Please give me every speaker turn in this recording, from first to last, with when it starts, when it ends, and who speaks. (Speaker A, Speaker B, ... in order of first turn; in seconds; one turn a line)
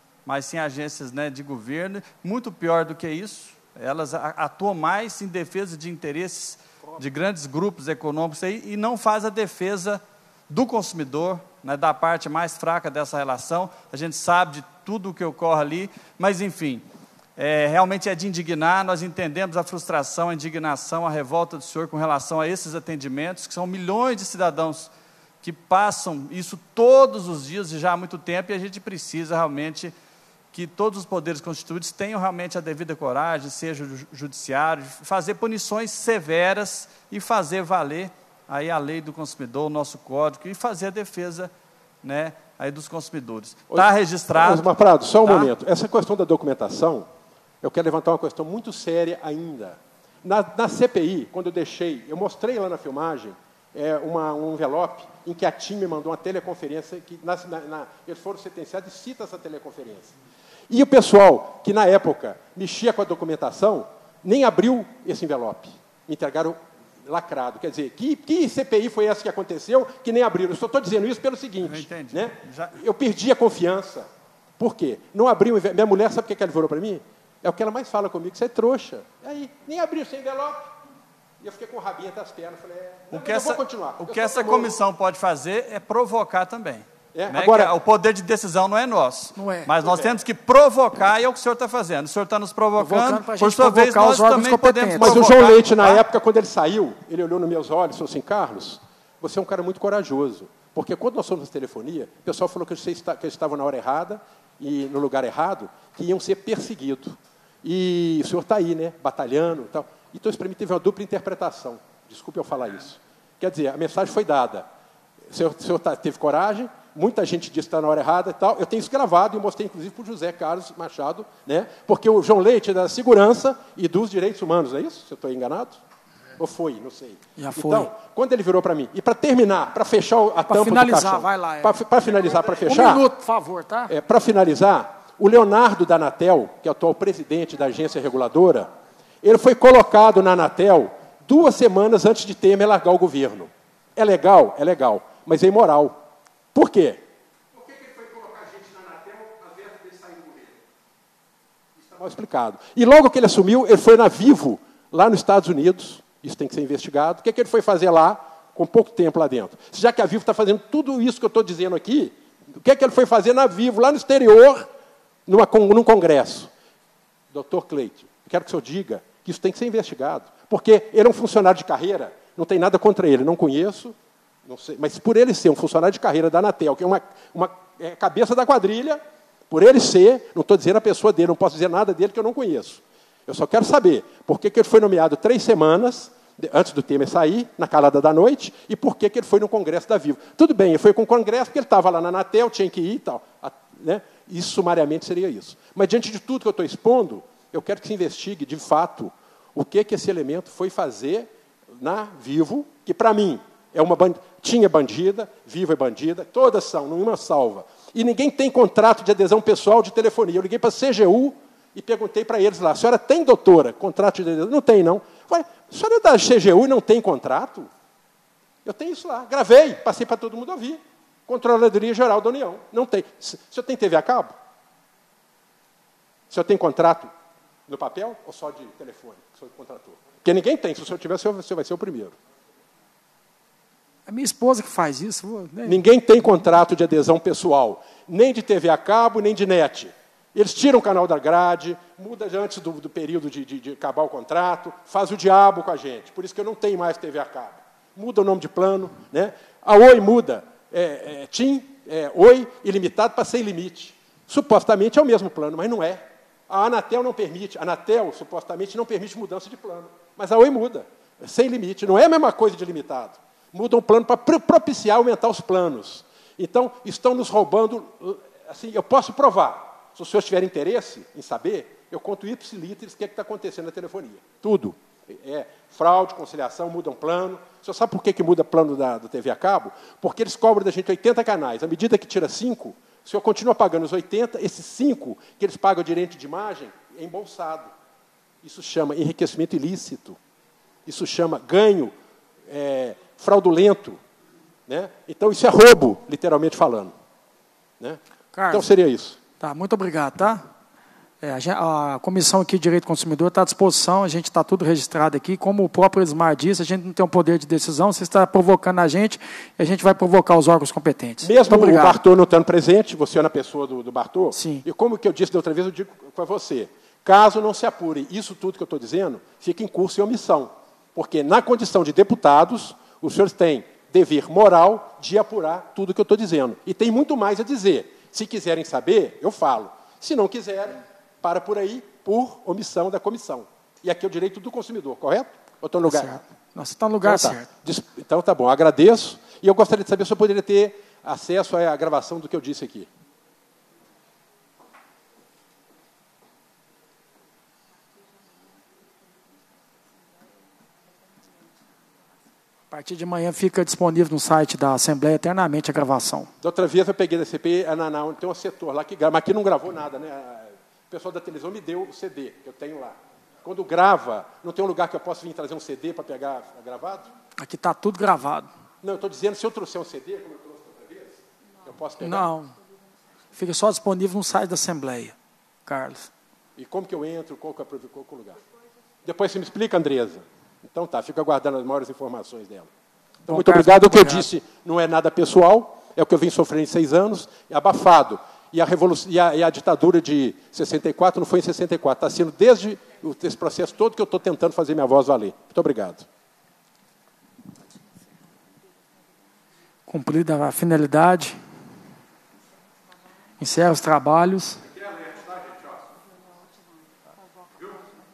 Speaker A: 0.2-16.8
Speaker A: 17.4-24.9
Speaker A: 25.4-29.9
Speaker A: 30.5-41.5
Speaker A: 42.0-44.6
Speaker B: 43.7-47.1
Speaker A: 45.2-45.5
Speaker B: 47.6-60.1
Speaker B: 60.7-74.1
Speaker A: 71.6-72.8
Speaker B: 74.6-80.7
Speaker B: 81.4-84.8
Speaker A: 83.1-96.0
Speaker B: 87.1-87.7
Speaker C: 89.3-89.7
Speaker B: 89.8-90.2
Speaker C: 92.8-95.2
Speaker B: 94.9-114.7
Speaker B: 115.3-125.8
Speaker B: 126.4-133.1
Speaker C: 127.4-127.9
Speaker C: 130.5-131.8
Speaker C: 132.5-133.9
Speaker B: 133.9-138.7
Speaker B: 139.2-146.0
Speaker B: 146.5-147.0
Speaker B: 147.5-150.6
Speaker B: 151.8-164.7
Speaker B: 165.2-166.5
Speaker B: 167.3-217.7
Speaker B: 218.6-224.3
Speaker B: 226.3-227.1
Speaker B: 227.7-232.2
Speaker C: 234.1-235.8
Speaker B: 235.6-287.7
Speaker B: 288.4-290.2
Speaker B: 290.9-291.9
Speaker B: 292.5-294.0
Speaker B: 294.7-296.9
Speaker B: 297.8-299.2
Speaker C: 298.3-298.7
Speaker C: 299.4-300.4
Speaker C: 301.2-312.0
Speaker B: 311.2-336.2
Speaker C: 314.3-314.6
Speaker C: 335.9-337.5
Speaker B: 337.0-342.9
Speaker C: 352.7-356.3
Speaker B: 356.4-367.1
Speaker C: 367.4-368.5
Speaker B: 368.8-372.3
Speaker C: 372.0-372.5
Speaker C: 373.3-376.1
Speaker B: 376.6-378.4
Speaker B: 379.0-382.7
Speaker C: 383.3-384.2
Speaker B: 383.3-396.1
Speaker C: 399.9-401.4
Speaker C: 403.4-404.6
Speaker B: 404.6-405.9
Speaker B: 407.5-407.9